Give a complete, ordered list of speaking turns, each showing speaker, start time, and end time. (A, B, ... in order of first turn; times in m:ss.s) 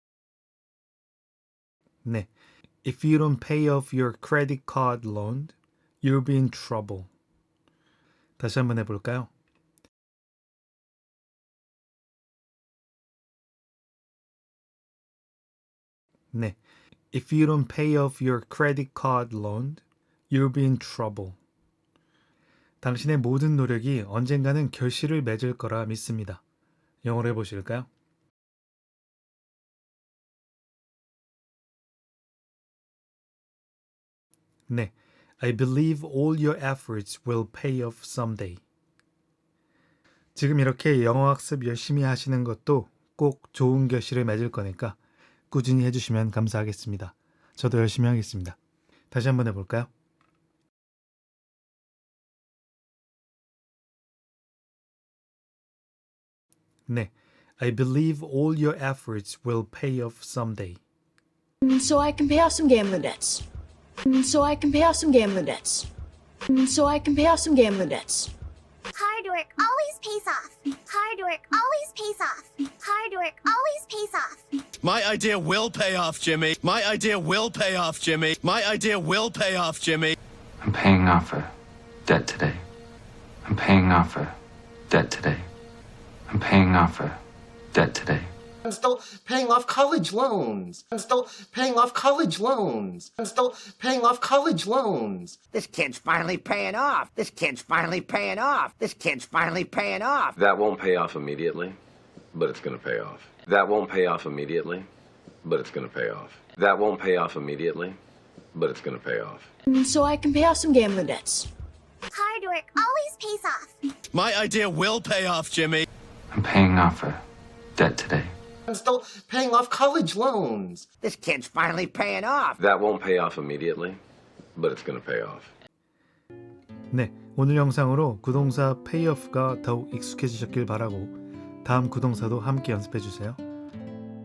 0:02.0-0:02.3 A
0:02.8-0:07.1 A
0:08.4-0:09.3 A
0:16.3-0:16.6 A
0:17.1-0:21.4 A
0:22.8-0:26.4 A
0:27.0-0:27.9 A
0:34.7-0:38.6 A
0:40.3-0:45.0 A
0:45.5-0:48.6 A
0:49.1-0:49.9 A
0:56.9-1:00.8 A
1:01.6-1:03.4 B
1:04.0-1:05.9 B
1:06.5-1:08.3 B
1:08.9-1:14.4 C
1:14.8-1:20.2 D
1:20.6-1:21.5 E
1:22.0-1:22.6 E
1:23.4-1:24.4 E
1:24.9-1:25.5 E
1:26.3-1:27.2 E
1:27.7-1:28.3 E
1:28.6-1:35.4 F
1:35.5-1:40.4 G
1:40.4-1:41.8 H
1:42.3-1:44.9 H
1:45.4-1:48.0 H
1:48.5-1:49.5 H
1:49.7-1:51.5 B
1:52.1-1:53.8 C
1:54.1-1:55.8 D
1:56.3-1:57.2 E
1:57.8-1:58.3 E
1:58.7-2:00.8 F
2:01.0-2:02.6 G
2:02.6-2:04.0 H
2:04.6-2:05.5 H
2:06.9-2:13.4 A